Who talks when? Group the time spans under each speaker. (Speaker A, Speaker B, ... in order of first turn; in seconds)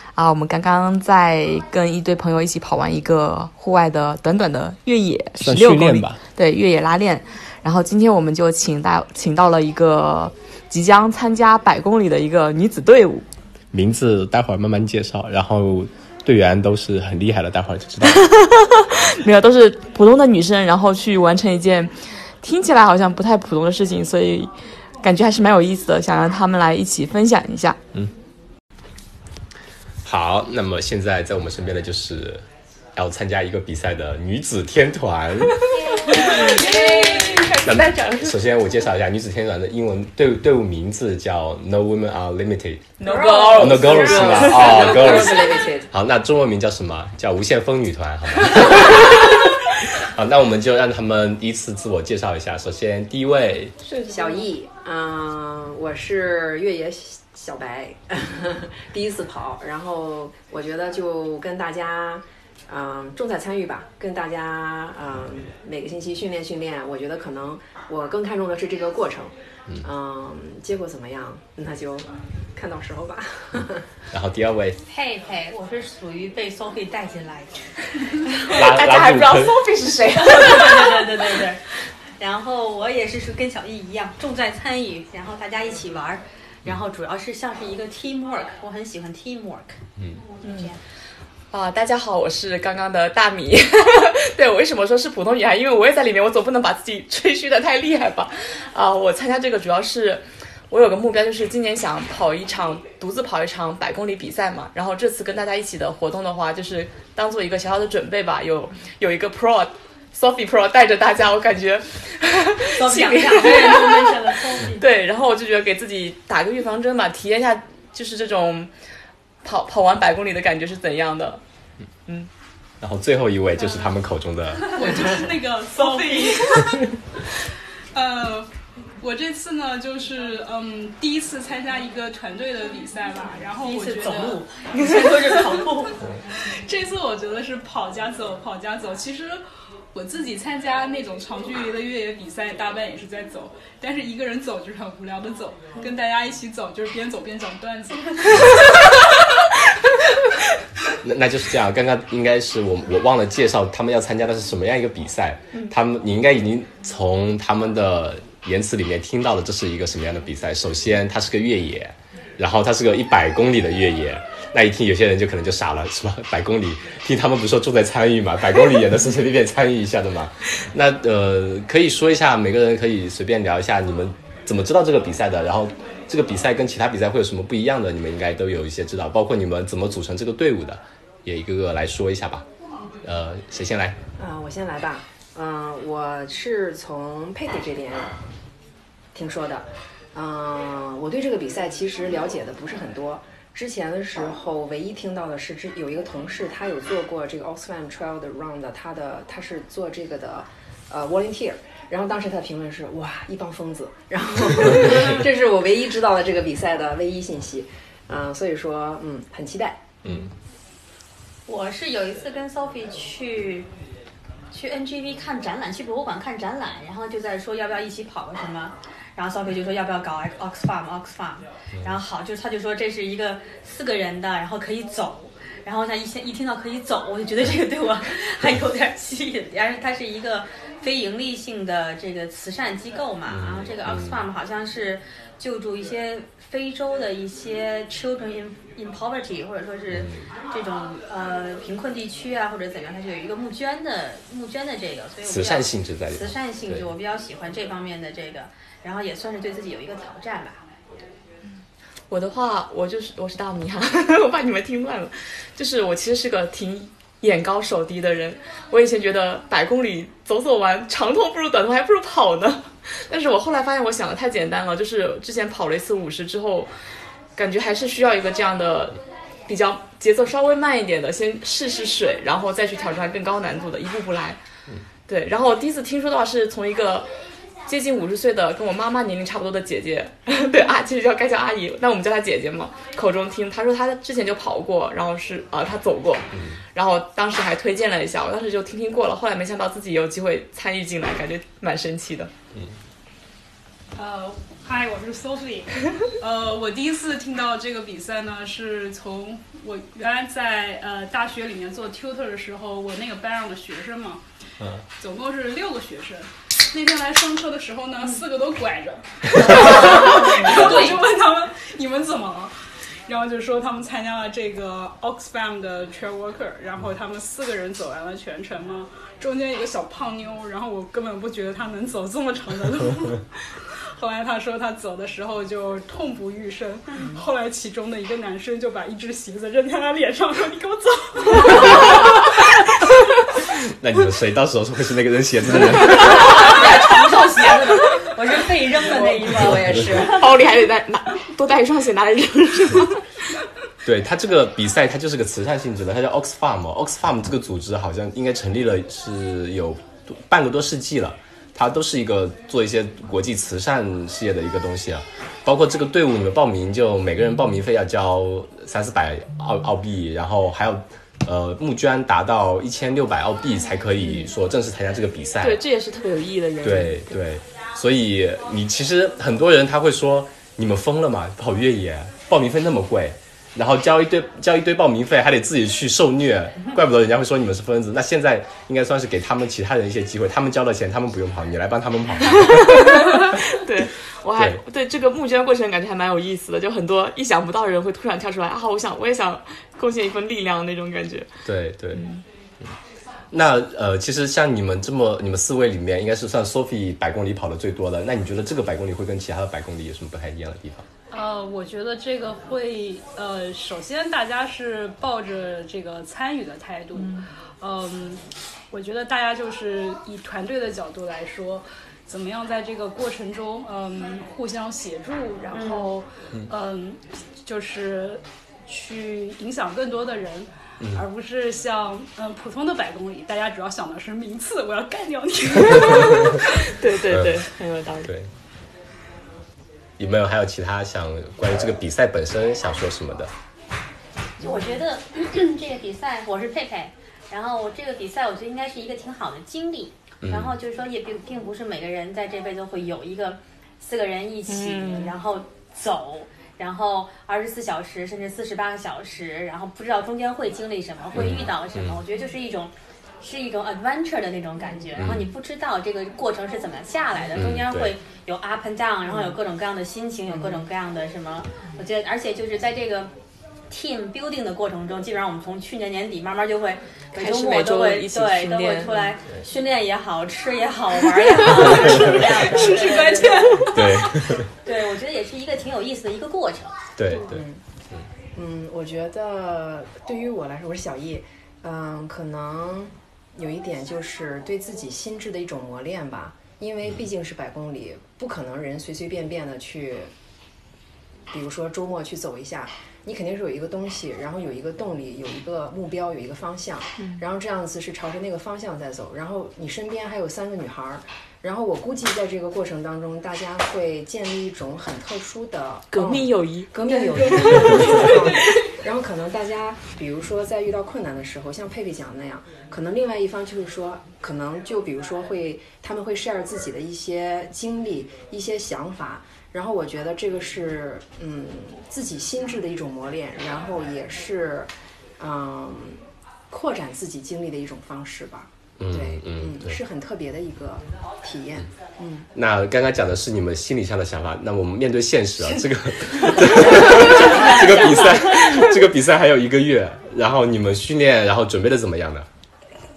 Speaker A: 0.2-13.3, 18.0-24.5, 25.0-27.8, 35.7-38.4, 43.0-45.6, 53.8-54.5, 78.3-81.4, 91.5-118.7, 119.4-121.4, 252.1-266.7, 267.4-274.4, 275.1-277.1, 277.7-292.3, 331.5-332.1, 335.9-337.7, 339.9-343.1, 364.0-364.3, 365.4-367.2, 382.3-391.3, 391.9-392.2, 426.4-428.1, 444.5-445.1, 467.1-468.9, 505.9-508.3
Speaker B: 5.4-6.2, 13.7-18.3, 30.0-32.4, 33.0-35.7, 37.6-42.9, 43.5-53.8, 74.1-74.8, 78.4-79.6, 122.8-124.8, 151.0-182.5, 183.0-184.0, 210.0-210.3, 233.3-234.2, 239.9-240.2, 245.3-246.9, 333.6-336.3, 343.8-365.6, 366.6-383.5, 384.4-384.6, 391.4-392.1, 393.3-400.9, 425.9-426.4, 427.1-427.5, 428.1-428.3, 430.0-433.3, 440.2-440.6, 451.1-452.0, 454.9-455.3, 457.4-457.9, 473.7-474.5, 477.0-478.0, 528.8-529.8, 532.4-542.3
Speaker C: 36.1-37.5, 124.7-126.8, 127.9-134.4, 136.4-139.4, 139.9-149.1, 294.0-304.2, 305.0-312.5, 313.1-331.9, 401.1-426.5, 471.5-474.0, 506.8-508.4
Speaker D: 36.3-36.7, 43.0-44.4, 74.9-77.7, 80.2-81.6, 82.2-89.8, 90.4-90.8, 112.8-114.8, 125.7-126.8, 133.6-136.0, 211.5-213.7, 214.5-250.6, 309.4-311.0, 335.9-340.3, 415.5-415.9, 434.4-463.1, 463.7-473.8, 474.6-476.8, 536.1-538.7
Speaker E: 43.4-45.9, 54.1-73.8, 184.2-188.2, 189.1-209.9, 339.2-340.3, 477.1-477.6, 478.3-490.1, 491.3-532.3